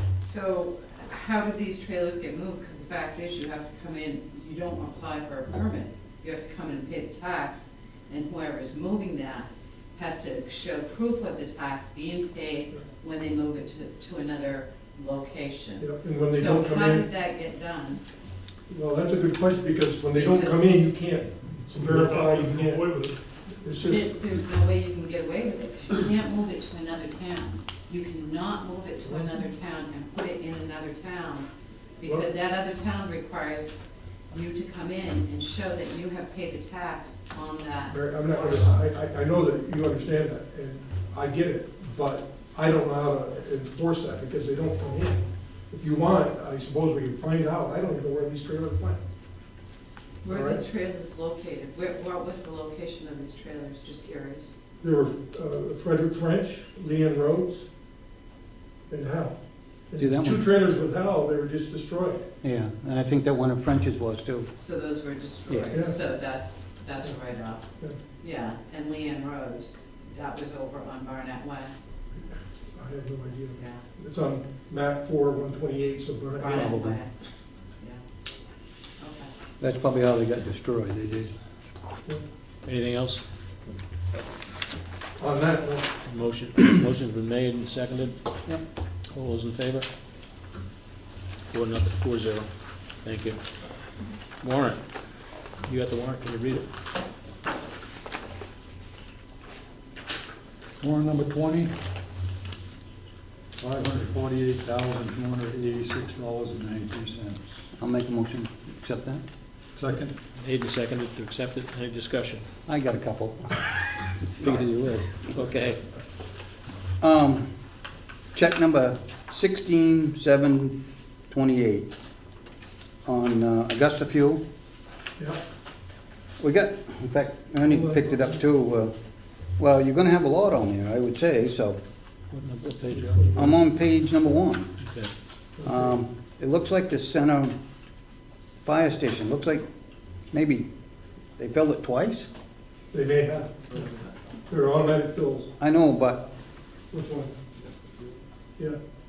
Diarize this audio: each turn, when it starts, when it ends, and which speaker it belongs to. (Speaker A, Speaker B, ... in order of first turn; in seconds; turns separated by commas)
Speaker A: 0.2-18.0, Speaker B: 15.8-17.1, Speaker B: 18.7-22.9, Speaker A: 20.1-20.8, Speaker A: 21.8-23.1, Speaker B: 23.6-24.1, Speaker A: 23.8-33.7, Speaker B: 29.1-29.4, Speaker B: 32.0-32.3, Speaker A: 34.3-38.8, Speaker B: 37.9-49.0, Speaker A: 50.2-54.5, Speaker B: 50.3-50.6, Speaker B: 54.8-57.7, Speaker B: 58.9-62.3, Speaker C: 60.0-60.4, Speaker C: 62.4-64.5, Speaker A: 64.5-71.7, Speaker C: 65.5-65.7, Speaker B: 65.7-66.0, Speaker B: 72.2-76.8, Speaker A: 73.5-73.8, Speaker A: 76.3-77.1, Speaker C: 76.5-77.0, Speaker A: 79.0-79.3, Speaker C: 79.6-81.3, Speaker D: 82.6-83.2, Speaker B: 85.2-85.9, Speaker D: 86.0-88.2, Speaker D: 89.1-89.9, Speaker D: 91.5-93.4, Speaker D: 94.4-95.0, Speaker D: 95.6-96.7, Speaker E: 100.8-101.7, Speaker E: 103.6-107.6, Speaker C: 107.8-109.2, Speaker E: 109.7-110.1, Speaker D: 110.3-112.4, Speaker C: 112.7-113.7, Speaker D: 114.4-115.8, Speaker C: 114.4-114.7, Speaker C: 117.0-117.5, Speaker C: 118.3-120.8, Speaker C: 121.3-121.9, Speaker C: 123.0-124.4, Speaker C: 126.4-128.9, Speaker B: 127.7-128.3, Speaker C: 129.6-131.8, Speaker D: 132.3-133.5, Speaker C: 133.3-134.7, Speaker D: 134.8-135.1, Speaker B: 135.6-135.9, Speaker C: 135.6-137.6, Speaker C: 138.6-139.7, Speaker C: 140.3-140.7, Speaker C: 141.4-142.3, Speaker B: 142.9-143.9, Speaker B: 144.5-145.5, Speaker C: 145.6-146.2, Speaker B: 146.9-147.3